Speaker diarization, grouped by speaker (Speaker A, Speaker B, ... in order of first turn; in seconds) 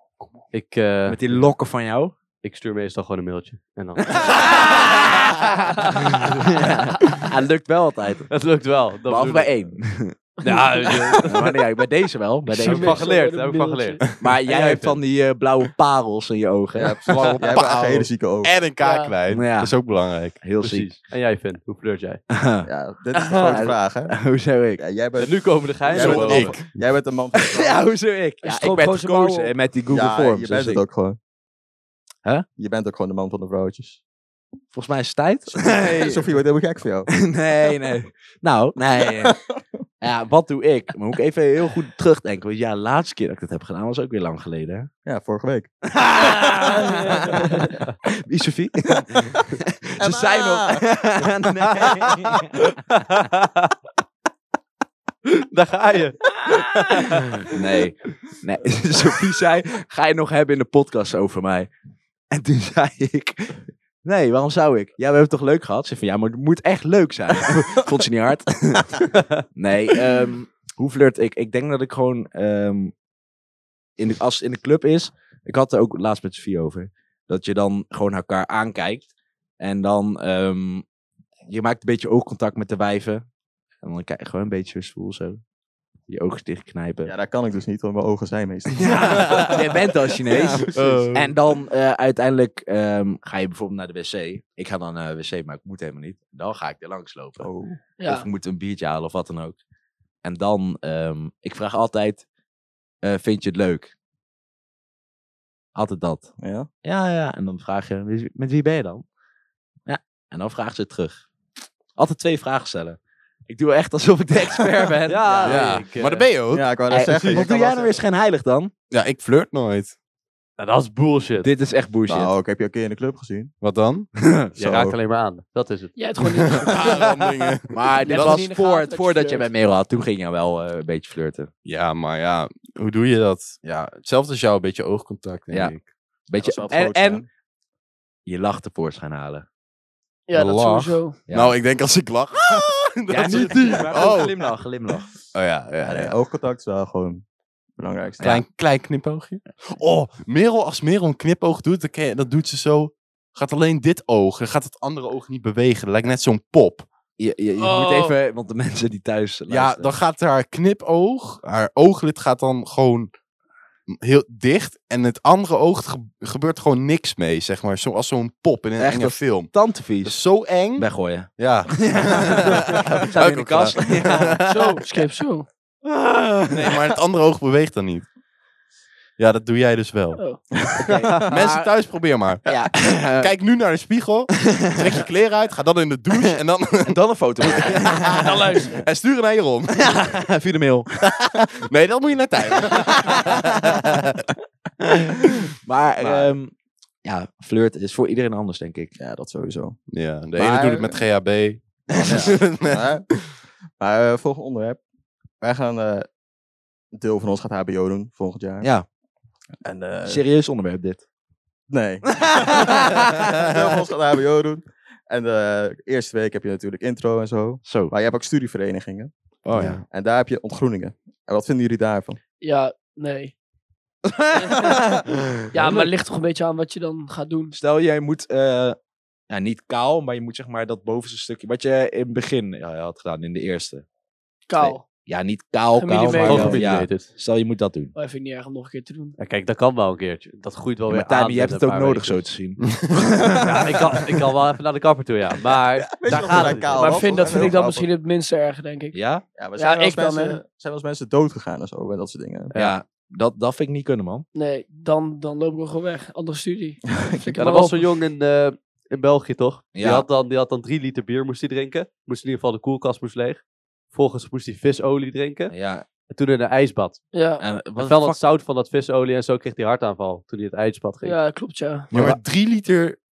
Speaker A: 0.5-1.5, 2.4-4.7, 8.3-9.7, 10.4-11.5, 12.5-15.0, 20.6-22.2, 25.2-26.6, 52.5-53.7, 55.2-57.5, 69.1-69.4, 115.0-116.3, 120.6-121.5, 124.6-126.0, 236.1-237.1, 239.2-242.2, 243.3-247.1, 252.5-252.8, 257.4-265.5, 266.1-267.0, 267.8-271.2
Speaker B: 1.1-2.1, 4.1-5.8, 6.4-8.3, 9.1-10.2, 11.2-13.1, 14.2-17.6, 19.3-19.8, 20.4-20.9, 22.3-22.7, 23.4-24.8, 27.4-30.8, 34.7-36.2, 37.1-39.4, 40.0-44.9, 45.9-52.5, 57.0-61.7, 62.3-72.9, 74.0-79.1, 79.6-80.8, 81.5-83.2, 83.8-85.4, 86.1-87.1, 88.8-97.5, 98.0-99.6, 100.2-102.2, 103.0-103.9, 105.7-106.3, 106.8-109.0, 109.8-111.2, 112.0-115.6, 116.9-118.7, 121.4-122.3, 124.2-124.5, 126.8-131.5, 136.3-137.2, 138.2-139.4, 141.3-141.6, 143.1-145.1, 157.2-159.9, 168.8-170.2, 170.8-174.7, 175.8-176.8, 180.8-181.7, 182.4-183.3, 184.5-185.0, 186.8-188.3, 189.8-190.9, 192.6-193.7, 194.8-196.5, 197.0-198.9, 208.6-208.8, 210.1-211.0, 212.2-213.2, 217.6-217.9, 219.4-219.8, 224.1-225.9, 227.5-228.8, 229.3-233.8, 234.6-237.9, 240.9-243.8, 246.1-246.5, 248.9-249.2, 252.5-254.2, 259.7-260.1, 265.5-265.8, 267.4-268.2, 271.9-272.2
Speaker C: 5.8-6.2, 10.4-11.3, 12.5-14.0, 18.8-19.1, 28.4-29.5, 46.7-47.6, 98.0-98.3, 126.0-127.0, 128.0-129.5, 140.3-141.2, 157.6-158.2, 174.4-175.5, 188.1-188.8, 222.4-223.3, 224.4-224.8, 225.5-227.5, 234.5-234.8, 235.8-236.7, 237.9-239.2, 246.7-249.0, 249.6-250.4, 254.3-257.8, 267.1-267.4, 271.0-271.9
Speaker D: 16.7-18.6, 22.6-24.1, 24.8-27.8, 29.9-31.2, 32.6-34.0, 35.5-37.1, 45.0-45.7, 50.0-50.9, 51.7-52.0, 87.0-90.5, 97.4-97.8, 106.4-106.7, 115.2-115.7, 116.5-118.0, 122.1-123.5, 124.5-125.0, 136.4-137.2, 143.3-144.2, 145.8-147.2, 147.8-148.3, 180.6-181.3, 196.0-196.3, 199.0-199.8, 200.3-201.0, 202.0-203.1, 203.8-204.8, 205.4-206.1, 206.9-208.7, 209.6-210.2, 211.7-219.1, 219.9-222.2, 245.9-247.9, 249.3-252.5
Speaker E: 17.1-20.4, 25.9-26.8, 88.8-89.6, 90.6-91.3, 115.4-116.7, 118.9-119.9, 123.6-124.1, 126.2-128.4, 131.6-135.9, 140.3-144.5, 145.3-146.1, 148.2-156.9, 159.5-163.1, 163.9-174.4, 176.5-178.1, 179.2-180.2, 181.2-190.2, 191.0-194.2, 199.9-203.3, 219.5-219.8, 242.6-243.1, 271.9-273.0